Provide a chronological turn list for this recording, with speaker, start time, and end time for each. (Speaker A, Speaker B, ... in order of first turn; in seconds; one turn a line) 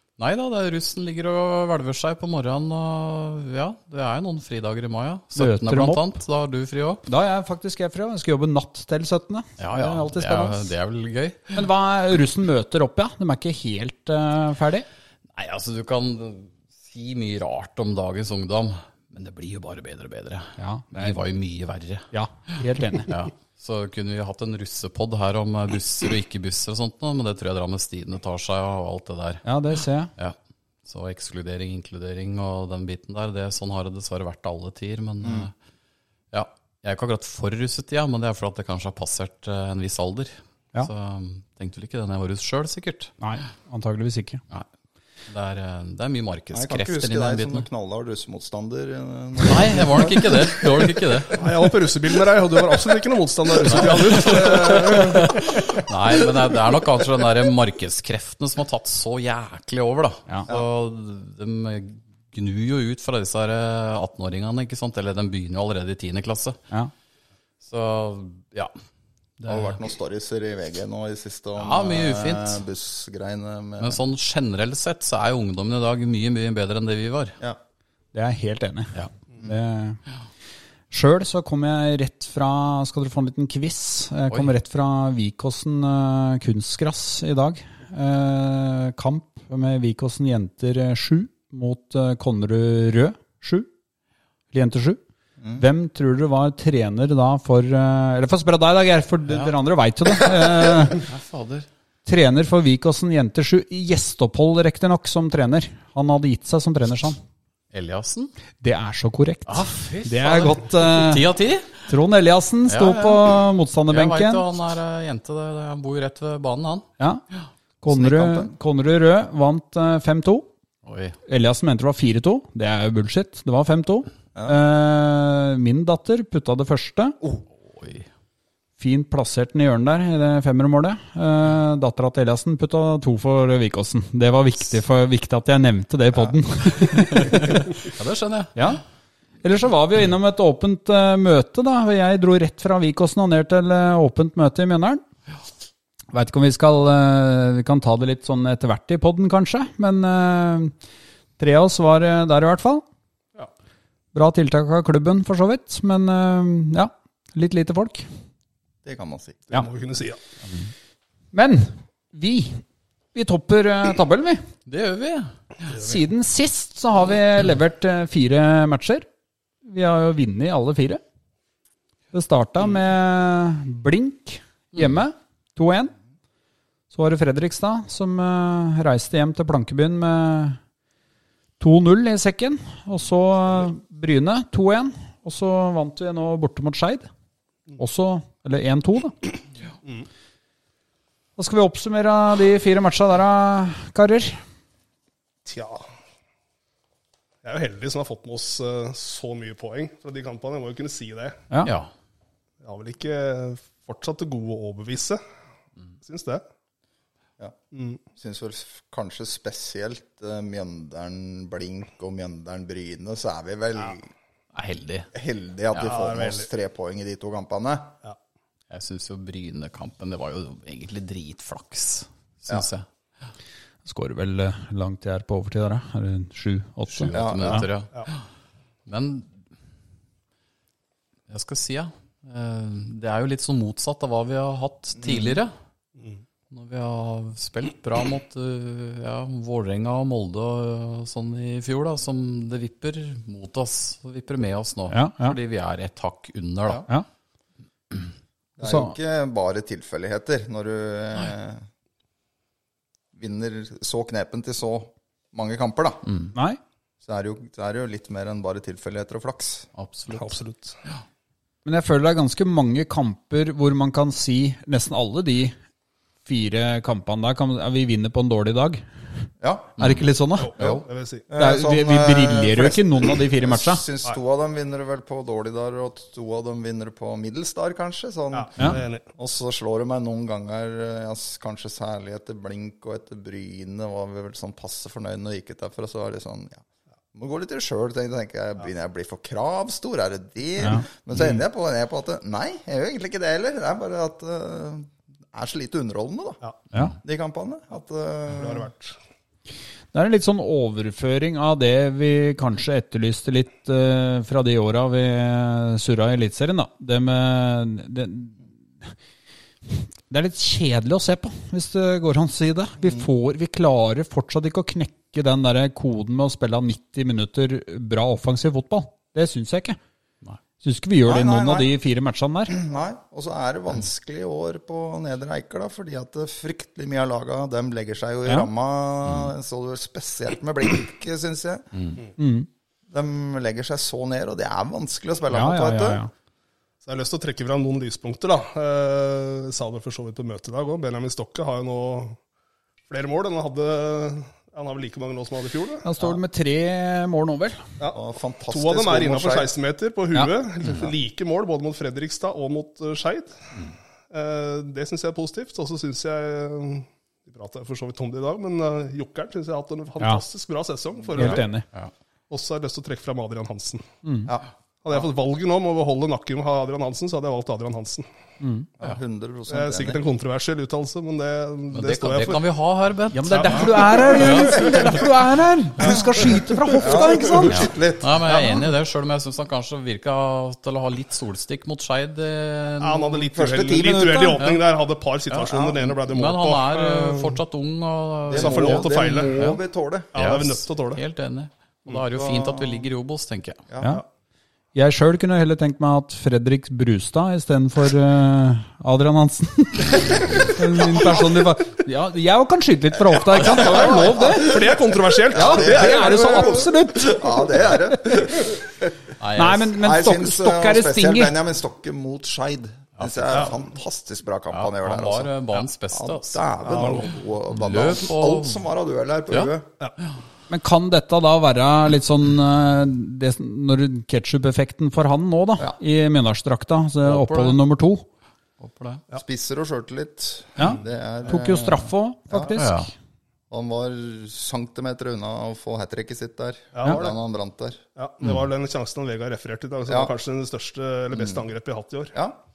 Speaker A: 0.2-7.0
Speaker B: 5.3-6.1
Speaker B: 7.1-10.7
Speaker A: 9.6-11.6
Speaker B: 11.5-14.8
Speaker A: 15.3-22.1
Speaker B: 20.6-21.2
Speaker B: 22.1-23.1
Speaker A: 23.1-29.4
Speaker B: 29.4-30.1
Speaker A: 30.2-35.5
Speaker C: 35.2-35.5
Speaker A: 36.3-43.1
Speaker B: 43.2-44.4
Speaker A: 45.3-47.6
Speaker C: 46.5-51.1
Speaker A: 49.4-51.5
Speaker D: 51.3-55.6
Speaker A: 53.6-66.6
Speaker A: 67.6-68.7
Speaker A: 69.4-69.8
Speaker C: 69.5-74.0
Speaker A: 71.6-72.6
Speaker A: 73.8-77.3
Speaker B: 78.1-80.0
Speaker B: 80.9-93.7
Speaker B: 94.5-95.0
Speaker B: 95.5-101.0
Speaker A: 99.3-99.5
Speaker A: 100.7-101.7
Speaker B: 102.0-107.2
Speaker A: 107.7-108.3
Speaker B: 108.6-111.2
Speaker A: 109.5-111.8
Speaker B: 111.9-114.4
Speaker A: 112.7-113.4
Speaker A: 113.9-116.9
Speaker B: 117.8-120.5
Speaker C: 117.9-118.5
Speaker A: 120.8-121.2
Speaker B: 121.3-127.2
Speaker C: 124.3-124.6
Speaker A: 127.7-128.1
Speaker B: 128.8-137.7
Speaker A: 137.0-138.6
Speaker B: 138.6-138.8
Speaker B: 139.4-145.0
Speaker B: 146.1-150.7
Speaker B: 151.4-152.8
Speaker B: 154.1-158.1
Speaker C: 158.8-159.4
Speaker D: 159.5-160.2
Speaker B: 161.3-162.6
Speaker B: 163.1-164.4
Speaker A: 164.7-165.7
Speaker B: 165.7-169.1
Speaker B: 169.6-171.0
Speaker B: 172.1-175.9
Speaker A: 174.8-175.0
Speaker B: 176.9-180.6
Speaker B: 181.6-187.1
Speaker B: 187.8-189.1
Speaker B: 191.4-194.4
Speaker D: 195.4-195.8
Speaker D: 197.4-201.4
Speaker A: 201.6-201.9
Speaker D: 202.6-205.2
Speaker D: 206.0-206.4
Speaker D: 207.7-208.0
Speaker C: 208.2-214.1
Speaker A: 214.5-215.1
Speaker C: 215.1-217.9
Speaker D: 215.8-216.5
Speaker A: 218.7-222.8
Speaker B: 223.8-227.7
Speaker A: 226.9-228.2
Speaker C: 227.1-227.7
Speaker A: 228.8-229.3
Speaker A: 231.3-235.5
Speaker C: 234.9-235.4
Speaker D: 236.0-236.2
Speaker A: 236.5-246.8
Speaker B: 244.9-245.3
Speaker C: 248.6-251.6
Speaker B: 248.6-248.9
Speaker C: 253.1-256.0
Speaker B: 256.3-256.6
Speaker C: 257.0-259.7
Speaker A: 259.8-261.0
Speaker D: 260.1-260.8
Speaker B: 261.6-265.5
Speaker B: 266.2-268.8
Speaker C: 269.4-269.8
Speaker B: 269.8-270.8
Speaker D: 270.4-271.2
Speaker C: 270.6-286.6
Speaker B: 271.4-273.8
Speaker D: 278.3-279.0
Speaker C: 287.1-296.4
Speaker C: 297.0-298.7
Speaker D: 298.3-298.9
Speaker B: 299.9-308.9
Speaker B: 309.7-319.8
Speaker C: 312.8-313.1
Speaker B: 320.6-322.5
Speaker C: 321.0-321.7
Speaker C: 322.5-331.7
Speaker B: 332.2-332.5
Speaker C: 332.9-336.0
Speaker B: 335.3-336.1
Speaker D: 336.8-342.2
Speaker D: 342.9-345.9
Speaker B: 345.8-347.6
Speaker C: 347.9-349.5
Speaker D: 348.5-353.4
Speaker D: 354.1-361.5
Speaker B: 361.2-361.6
Speaker D: 362.3-363.8
Speaker B: 364.0-364.3
Speaker D: 364.8-368.1
Speaker B: 368.4-368.7
Speaker C: 368.8-370.0
Speaker D: 369.5-372.4
Speaker A: 371.7-375.0
Speaker B: 373.1-377.6
Speaker D: 373.3-374.7
Speaker C: 376.8-378.3
Speaker A: 377.5-383.3
Speaker D: 378.3-378.6
Speaker D: 382.8-387.4
Speaker C: 383.3-384.4
Speaker A: 385.3-389.6
Speaker C: 388.3-390.1
Speaker D: 388.3-389.3
Speaker D: 390.1-391.0
Speaker A: 390.1-393.6
Speaker C: 392.1-392.9
Speaker C: 393.7-394.0
Speaker B: 394.7-404.6
Speaker C: 403.1-409.1
Speaker D: 403.5-406.6
Speaker B: 405.3-407.5
Speaker A: 409.2-409.7
Speaker B: 409.3-411.3
Speaker C: 409.7-415.3
Speaker A: 413.0-413.5
Speaker A: 414.5-416.4
Speaker C: 415.9-419.7
Speaker D: 416.6-417.1
Speaker A: 417.5-418.6
Speaker B: 420.5-428.0
Speaker A: 427.0-427.6
Speaker A: 428.6-429.0
Speaker C: 429.1-432.6
Speaker B: 430.6-432.9
Speaker A: 432.5-432.9
Speaker C: 433.5-437.8
Speaker D: 436.7-437.1
Speaker D: 437.9-442.1
Speaker C: 439.9-440.1
Speaker C: 441.1-441.5